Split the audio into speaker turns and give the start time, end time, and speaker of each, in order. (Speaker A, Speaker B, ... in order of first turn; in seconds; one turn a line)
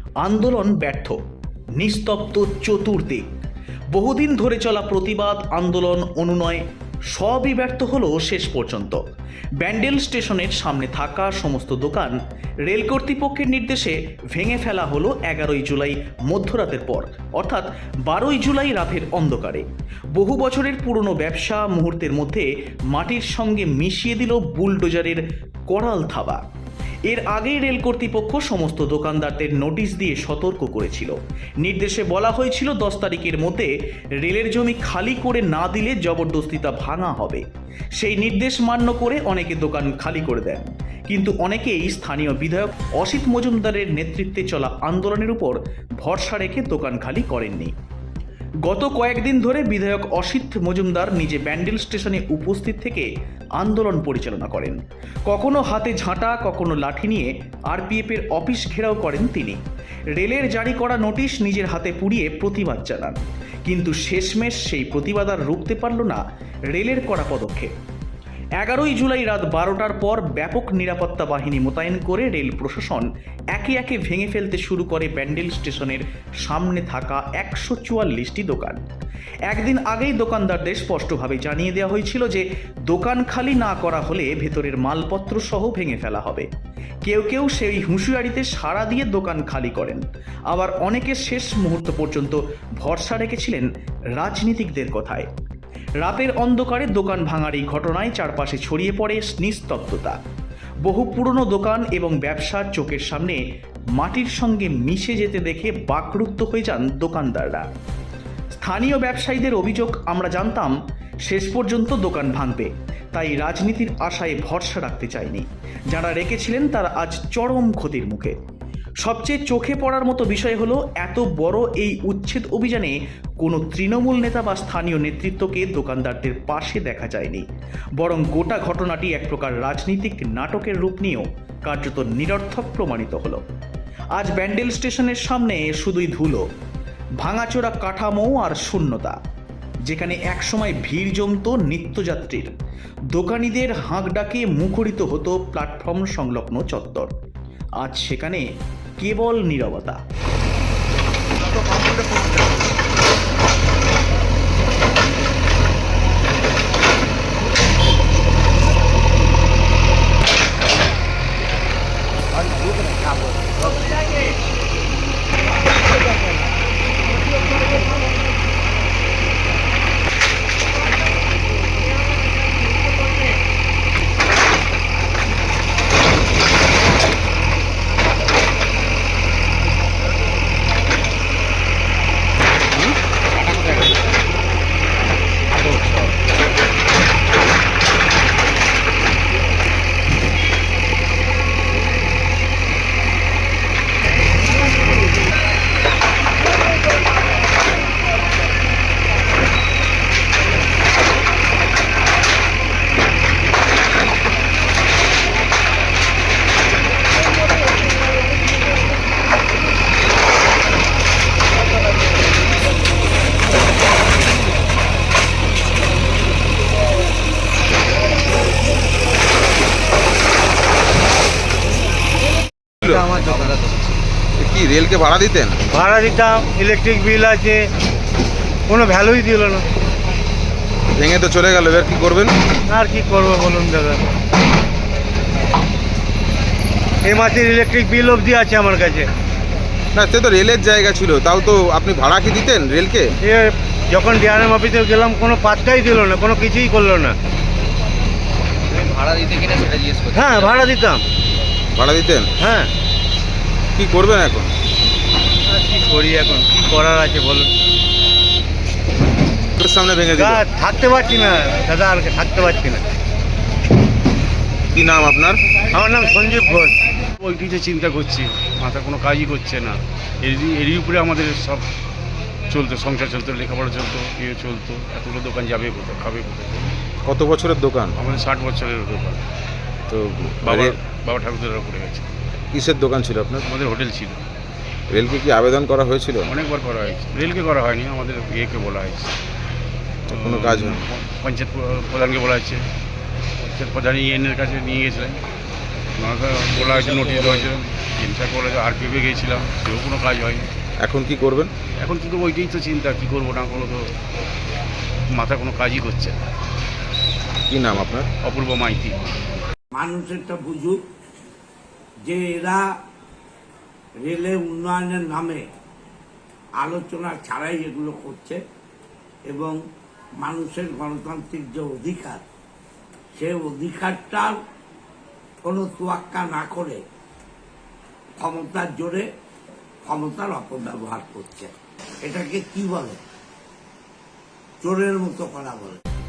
Speaker A: 0.2-1.2
Speaker A: 1.8-3.3
Speaker A: 4.0-9.0
Speaker A: 9.6-12.2
Speaker A: 12.7-26.4
Speaker A: 27.1-33.7
Speaker A: 34.2-37.4
Speaker A: 38.0-47.7
Speaker A: 48.7-59.6
Speaker A: 60.1-66.2
Speaker A: 66.7-67.7
Speaker A: 68.6-78.8
Speaker A: 79.5-86.5
Speaker A: 87.0-93.7
Speaker A: 94.2-95.3
Speaker A: 96.0-100.2
Speaker A: 100.8-103.4
Speaker A: 104.0-107.7
Speaker A: 108.6-110.8
Speaker A: 111.3-118.3
Speaker A: 119.0-127.5
Speaker A: 128.0-133.4
Speaker A: 134.2-136.4
Speaker A: 137.2-139.2
Speaker A: 139.8-142.5
Speaker A: 143.1-147.1
Speaker A: 147.8-148.5
Speaker A: 149.0-150.0
Speaker B: 185.6-186.1
Speaker C: 222.8-223.2
Speaker D: 222.8-223.6
Speaker E: 223.4-223.9
Speaker C: 224.4-225.6
Speaker D: 225.7-227.7
Speaker D: 228.7-229.7
Speaker C: 231.0-232.4
Speaker D: 232.7-234.0
Speaker D: 237.0-239.1
Speaker C: 239.9-243.1
Speaker D: 243.2-247.2
Speaker E: 248.7-250.7
Speaker D: 250.1-251.0
Speaker C: 251.7-252.3
Speaker D: 252.4-252.7
Speaker C: 253.8-254.5
Speaker D: 255.5-257.5
Speaker C: 259.6-260.4
Speaker D: 260.1-262.8
Speaker C: 264.7-265.4
Speaker D: 265.7-266.7
Speaker B: 267.2-271.7
Speaker B: 272.5-276.7
Speaker C: 277.1-277.9
Speaker B: 278.0-279.2
Speaker C: 279.9-280.8
Speaker B: 280.4-282.1
Speaker C: 282.5-283.5
Speaker B: 283.4-284.2
Speaker C: 284.9-286.3
Speaker B: 286.3-289.1
Speaker C: 290.1-290.9
Speaker B: 290.1-292.7
Speaker B: 293.4-295.2
Speaker B: 296.0-300.5
Speaker C: 300.8-301.5
Speaker B: 301.8-303.9
Speaker B: 305.1-306.2
Speaker C: 307.5-308.1
Speaker B: 308.2-309.2
Speaker F: 309.7-310.8
Speaker F: 312.1-312.6
Speaker F: 314.0-315.4
Speaker F: 316.6-318.4
Speaker F: 319.3-319.6
Speaker F: 320.2-322.2
Speaker F: 323.2-324.4
Speaker F: 325.4-326.8
Speaker F: 328.2-329.1
Speaker F: 329.9-331.5
Speaker F: 332.0-333.0
Speaker F: 334.6-335.8